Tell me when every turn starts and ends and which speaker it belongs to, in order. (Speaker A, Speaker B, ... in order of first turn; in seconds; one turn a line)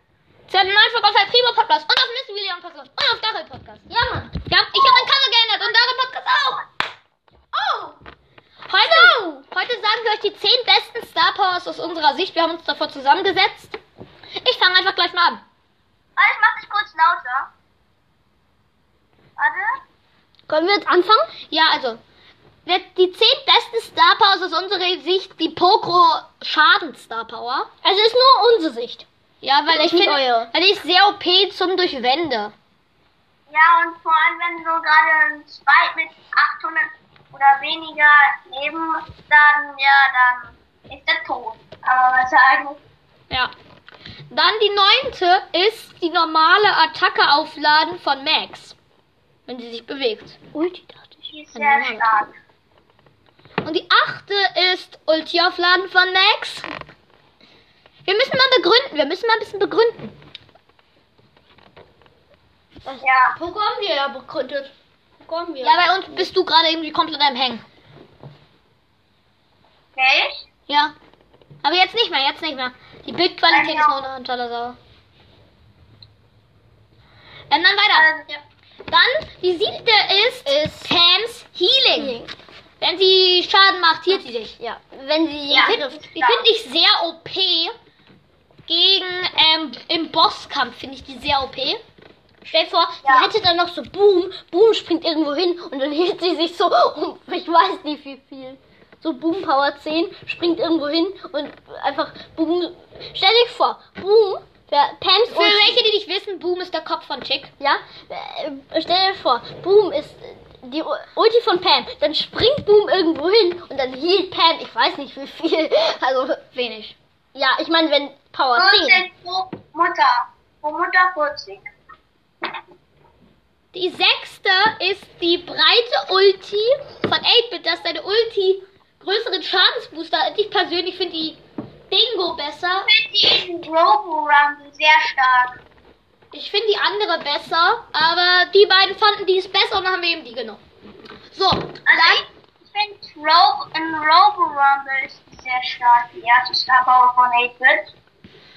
Speaker A: 0.5-6.6
Speaker B: 4.7-5.1
Speaker C: 7.6-7.9
Speaker A: 8.7-13.8
Speaker C: 8.9-9.2
Speaker A: 14.4-15.4
Speaker B: 16.2-17.5
Speaker B: 19.4-19.8
Speaker C: 20.5-21.3
Speaker A: 21.5-22.0
Speaker A: 22.7-27.7
Speaker C: 27.8-29.1
Speaker A: 29.4-32.5
Speaker C: 29.7-30.5
Speaker B: 33.5-42.8
Speaker A: 44.3-48.8
Speaker A: 49.5-50.4
Speaker C: 50.5-51.3
Speaker B: 51.3-52.3
Speaker A: 51.5-52.1
Speaker A: 53.6-56.7
Speaker A: 58.1-60.1
Speaker C: 62.9-66.3
Speaker B: 63.0-63.4
Speaker A: 65.6-67.6
Speaker B: 70.0-70.3
Speaker A: 70.7-70.9
Speaker A: 71.6-74.8
Speaker B: 73.5-74.1
Speaker A: 77.5-78.1
Speaker B: 77.9-78.4
Speaker A: 78.9-82.2
Speaker C: 80.5-81.0
Speaker C: 81.9-82.3
Speaker A: 82.8-84.6
Speaker C: 84.5-86.0
Speaker B: 85.5-86.5
Speaker A: 85.6-87.7
Speaker A: 88.7-91.8
Speaker C: 92.4-105.8
Speaker B: 93.0-93.3
Speaker A: 105.3-107.5
Speaker C: 107.6-116.5
Speaker A: 116.5-117.0
Speaker C: 117.3-119.1
Speaker B: 118.5-121.7
Speaker A: 123.7-132.9
Speaker B: 132.8-135.6
Speaker A: 136.3-140.6
Speaker A: 141.3-142.3
Speaker B: 141.9-147.9